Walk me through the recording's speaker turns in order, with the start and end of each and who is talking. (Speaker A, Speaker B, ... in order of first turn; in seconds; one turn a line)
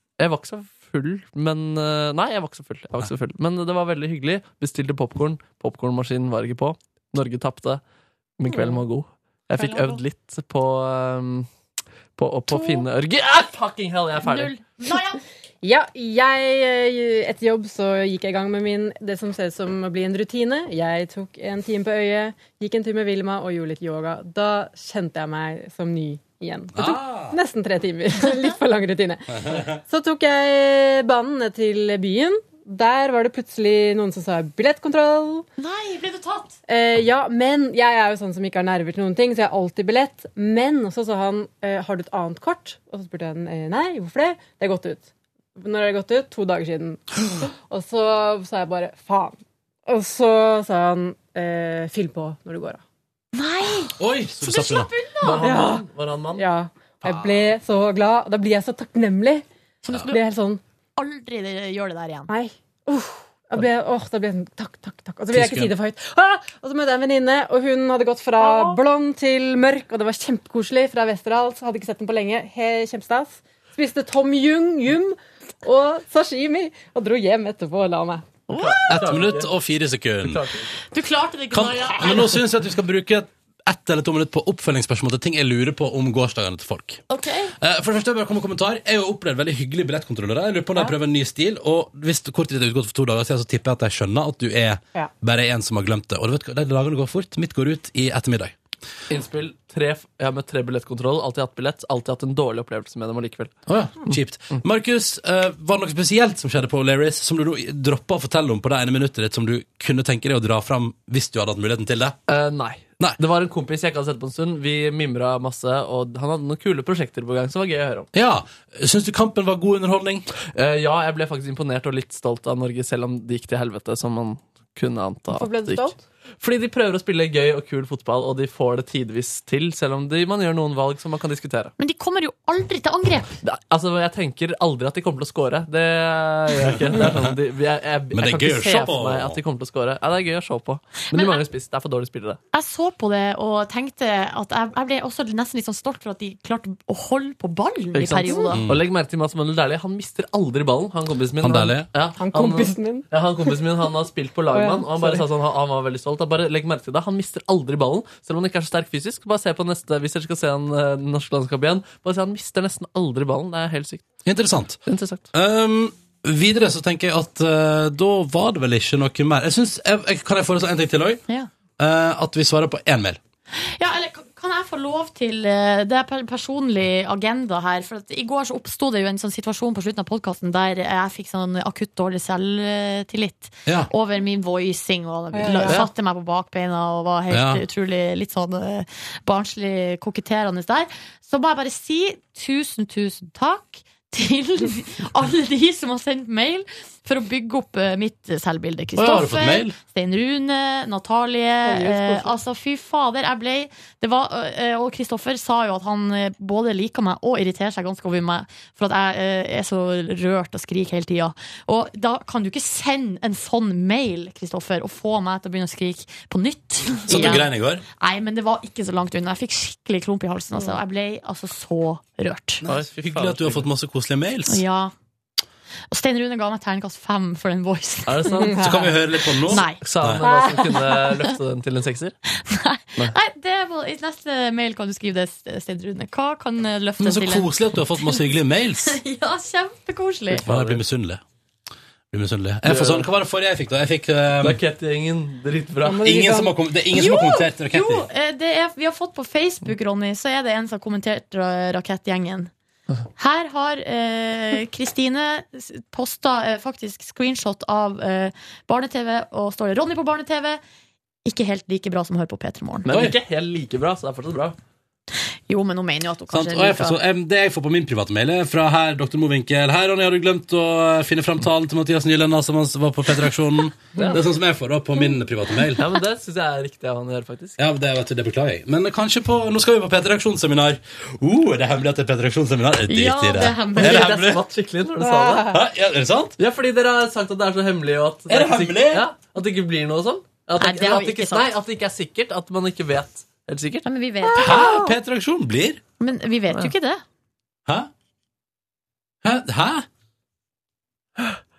Speaker A: 0.2-7.8
Speaker A: 8.4-11.5
Speaker B: 8.5-8.8
Speaker C: 9.5-10.0
Speaker A: 12.2-14.6
Speaker C: 12.5-12.8
Speaker C: 14.2-15.2
Speaker B: 15.6-35.5
Speaker D: 26.8-27.4
Speaker C: 35.6-36.6
Speaker B: 36.7-47.1
Speaker B: 47.6-52.8
Speaker C: 53.3-55.4
Speaker D: 54.0-54.9
Speaker A: 55.2-56.5
Speaker B: 55.4-59.5
Speaker A: 57.0-57.5
Speaker C: 59.8-60.2
Speaker B: 60.1-60.6
Speaker C: 61.0-62.3
Speaker B: 62.3-78.3
Speaker D: 65.3-65.7
Speaker C: 68.4-68.8
Speaker C: 78.5-79.0
Speaker A: 78.5-79.5
Speaker D: 78.9-80.4
Speaker A: 80.2-80.7
Speaker C: 80.9-82.4
Speaker D: 81.5-87.0
Speaker C: 87.1-87.5
Speaker D: 87.6-98.6
Speaker A: 99.1-103.5
Speaker D: 103.7-112.2
Speaker A: 112.3-118.1
Speaker D: 118.1-120.3
Speaker A: 120.5-131.7
Speaker B: 125.3-126.0
Speaker C: 131.8-133.4
Speaker A: 133.4-142.4
Speaker D: 136.7-137.4
Speaker D: 138.1-139.4
Speaker C: 141.1-141.4
Speaker C: 142.5-148.6
Speaker A: 147.9-164.1
Speaker D: 148.6-148.8
Speaker D: 151.4-151.9
Speaker B: 152.2-153.9
Speaker B: 154.5-155.3
Speaker D: 164.3-164.8
Speaker A: 164.9-165.3
Speaker D: 165.3-171.2
Speaker D: 171.8-173.2
Speaker C: 173.6-222.6
Speaker B: 185.3-185.9
Speaker D: 187.3-187.6
Speaker D: 199.0-199.8
Speaker B: 201.7-202.3
Speaker D: 217.1-217.8
Speaker D: 222.6-224.6
Speaker A: 222.7-223.7
Speaker C: 224.5-224.9
Speaker C: 225.9-228.6
Speaker A: 228.1-228.8
Speaker B: 228.4-228.9
Speaker D: 228.6-230.2
Speaker C: 229.4-229.8
Speaker A: 229.8-232.2
Speaker B: 230.2-231.2
Speaker C: 232.4-238.2
Speaker D: 237.0-239.0
Speaker C: 238.8-240.5
Speaker D: 240.4-241.2
Speaker A: 240.5-240.8
Speaker D: 242.1-244.6
Speaker A: 242.7-243.1
Speaker A: 244.4-246.3
Speaker B: 245.8-246.6
Speaker D: 246.0-248.1
Speaker C: 246.9-252.5
Speaker C: 253.2-260.6
Speaker C: 261.3-262.9
Speaker A: 262.9-264.6
Speaker D: 262.9-263.1
Speaker C: 265.5-267.0
Speaker D: 266.3-275.8
Speaker A: 274.0-274.2
Speaker A: 275.8-277.6
Speaker D: 277.6-284.4
Speaker C: 282.9-284.1
Speaker A: 283.8-285.6
Speaker B: 285.0-285.6
Speaker D: 285.5-286.4
Speaker A: 286.4-293.9
Speaker D: 288.3-289.1
Speaker C: 290.6-291.5
Speaker C: 293.9-294.7
Speaker B: 294.3-294.9
Speaker D: 294.4-295.8
Speaker C: 296.0-297.0
Speaker D: 299.2-299.9